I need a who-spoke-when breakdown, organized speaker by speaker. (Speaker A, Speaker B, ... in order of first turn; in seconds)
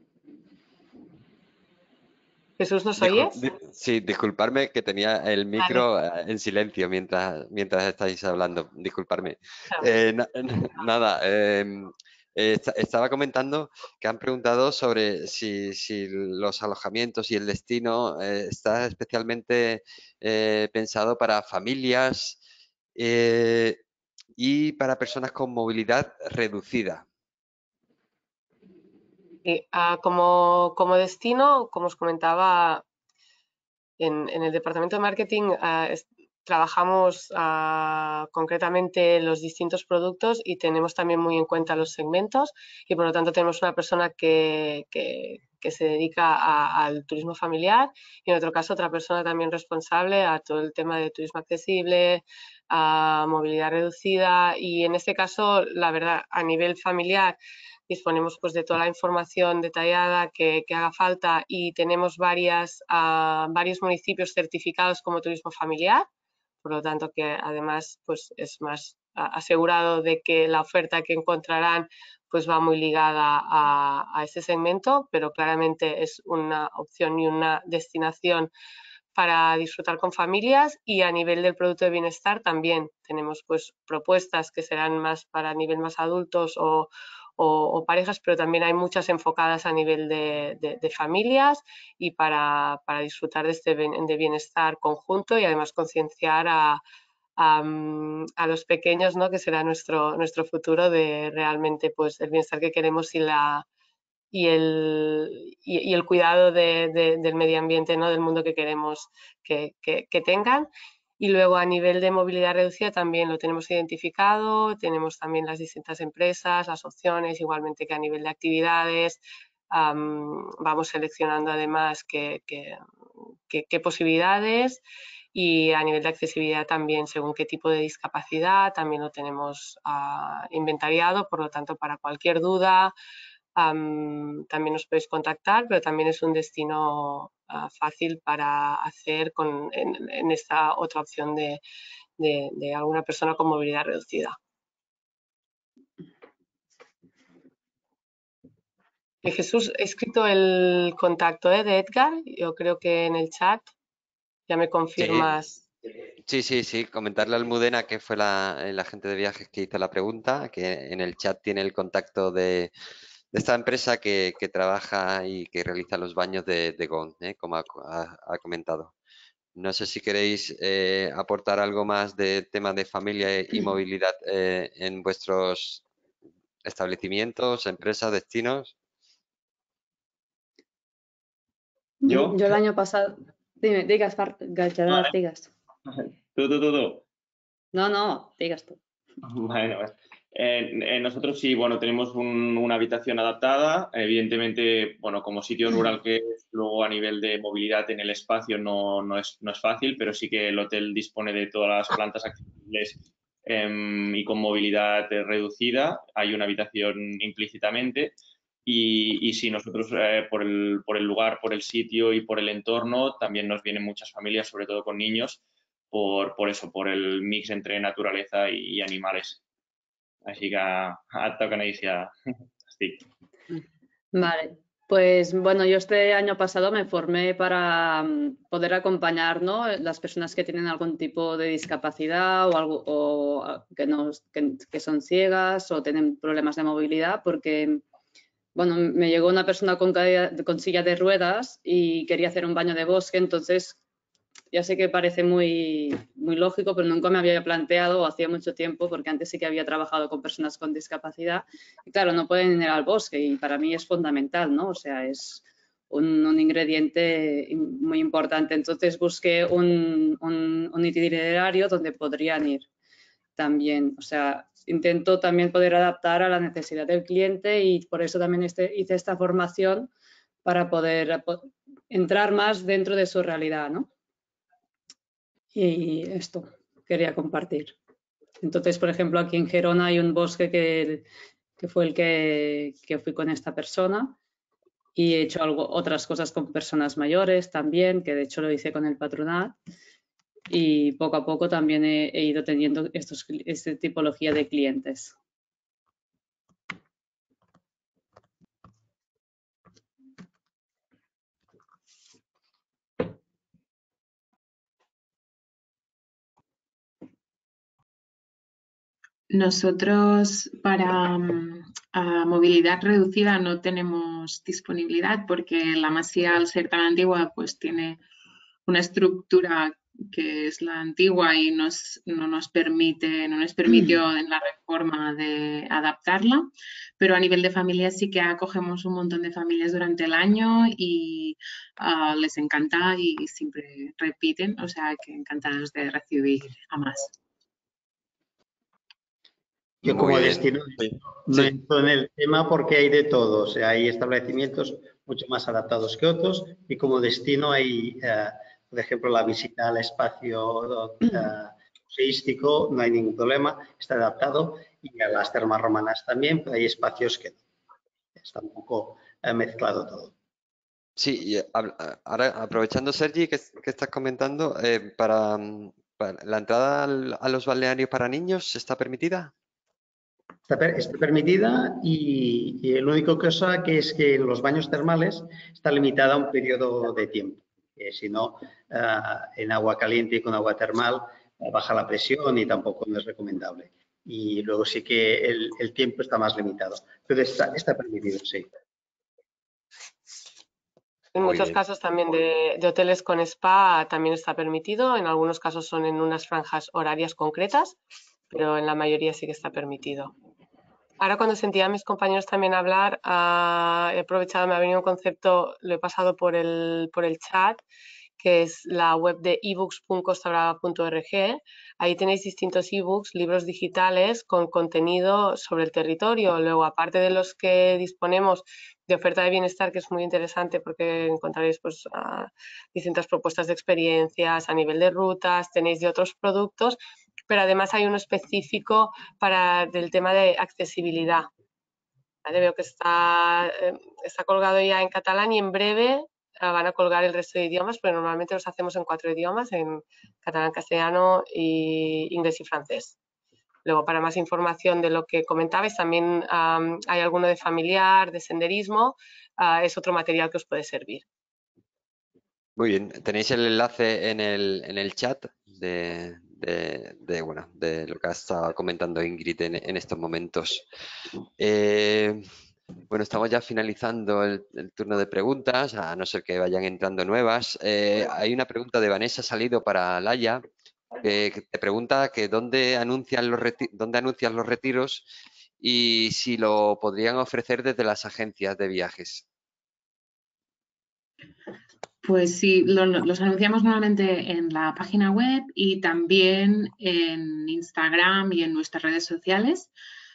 Speaker A: 2.6-3.4, 29.4-32.8, 34.0-57.4, 57.9-66.1, 66.6-78.5, 79.1-96.8, 97.4-103.6, 104.3-122.8, 123.5-124.8, 125.3-132.9, 133.6-141.6, 142.2-144.4, 149.2-153.7, 154.5-155.6, 391.1-397.8, 398.3-400.1, 401.0-407.6, 408.2-426.8, 427.3-431.3, 432.2-442.9, 443.6-451.0
Speaker B: 3.0-22.4, 22.9-23.8, 24.4-27.1, 155.0-155.3, 156.2-162.7, 163.3-168.9, 169.6-175.8, 176.6-178.7, 339.8-341.5, 361.0-369.3, 391.1-391.6, 452.6-460.6, 461.4-462.2, 462.9-470.4, 471.0-475.1, 475.6-479.2
Speaker C: 182.0-185.5, 187.7-188.8, 224.1-237.8, 238.5-243.8, 244.5-262.7, 263.4-269.9, 270.4-273.9, 275.5-277.7, 278.4-281.0, 281.6-284.1, 284.9-289.5, 290.5-295.1
Speaker D: 182.1-182.6, 184.9-185.1, 185.8-187.0, 189.2-215.4, 215.9-219.4, 220.2-222.1, 222.6-223.0
Speaker E: 309.3-318.0, 318.6-337.1, 482.0-489.7
Speaker F: 339.8-357.4, 358.2-360.1, 370.5-388.5